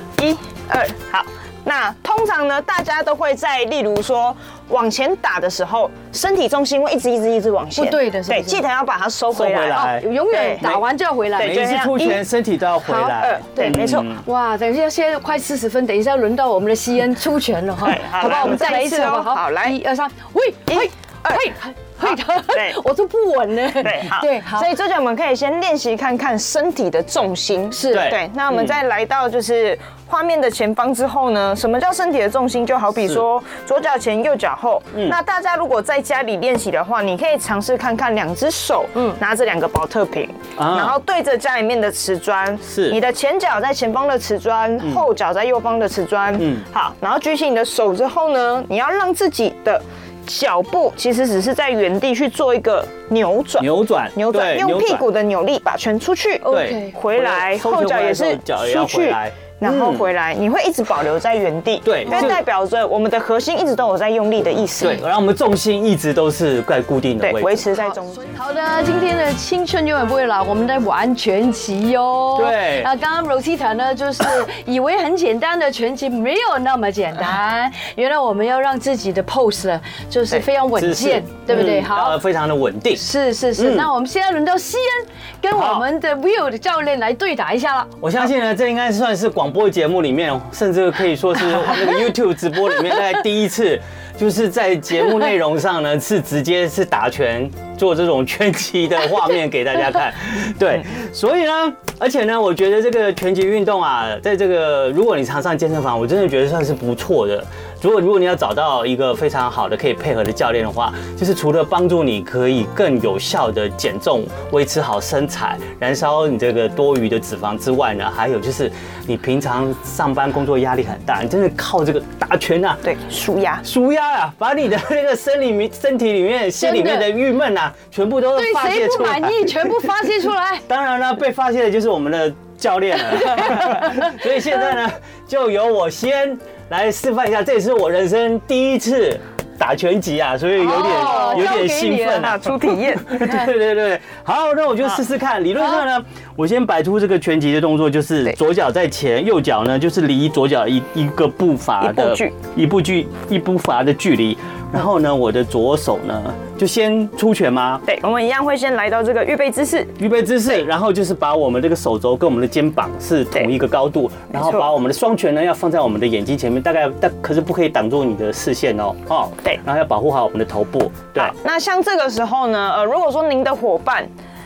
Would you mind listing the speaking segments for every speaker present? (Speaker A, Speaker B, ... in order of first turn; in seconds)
Speaker A: 0.2-10.8, 11.3-12.2, 13.1-14.1, 17.8-19.8, 20.7-21.5, 22.0-22.8, 23.8-65.0, 67.2-68.2, 122.8-123.6, 140.8-141.6, 142.1-143.5, 151.8-152.4, 157.8-159.9, 164.3-164.7, 171.1-174.1
Speaker B: 7.8-8.6, 9.7-11.6, 12.8-24.7, 27.7-28.1, 56.4-57.0, 62.1-62.3, 67.7-82.2, 83.0-87.9, 126.6-127.1, 128.3-130.6, 133.2-134.1, 140.6-142.4
Speaker C: 9.3-10.0, 11.4-14.2, 27.9-28.8, 40.6-41.0, 42.6-43.0, 46.4-46.6, 53.6-55.1, 56.5-60.1, 61.8-62.4, 64.8-67.7, 72.3-72.9, 80.3-83.0, 83.5-83.9, 85.5-85.9, 88.0-122.9, 123.6-129.9, 130.7-157.8, 160.0-171.3